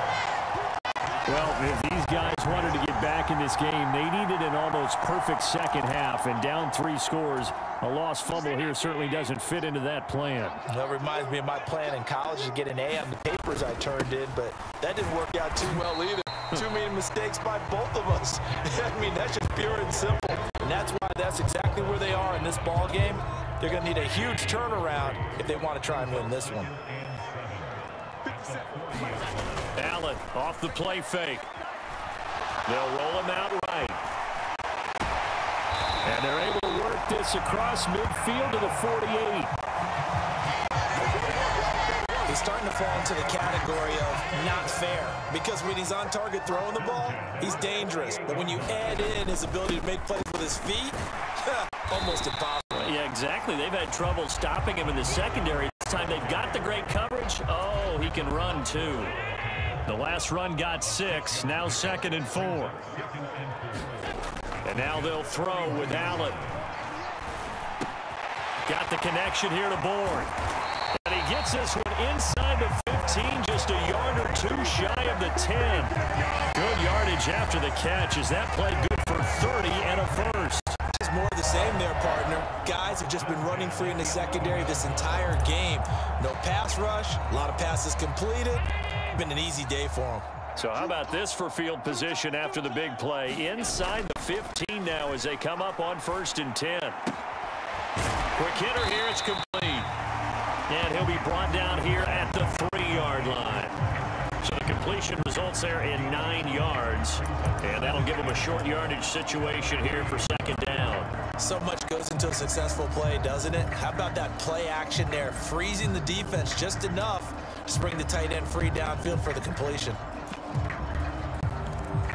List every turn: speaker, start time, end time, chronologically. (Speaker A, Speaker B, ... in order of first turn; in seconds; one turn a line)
Speaker A: 1.2-10.6
Speaker B: 10.7-26.8
Speaker A: 29.7-31.5
Speaker A: 32.6-34.0
Speaker A: 36.0-39.5
Speaker B: 42.2-52.9
Speaker A: 52.8-59.2
Speaker A: 59.8-62.8
Speaker A: 64.6-66.4
Speaker A: 68.6-70.3
Speaker A: 70.9-80.8
Speaker B: 80.9-90.3
Speaker A: 90.5-97.0
Speaker A: 98.3-99.9
Speaker A: 100.7-103.8
Speaker A: 104.4-111.1
Speaker B: 111.4-120.0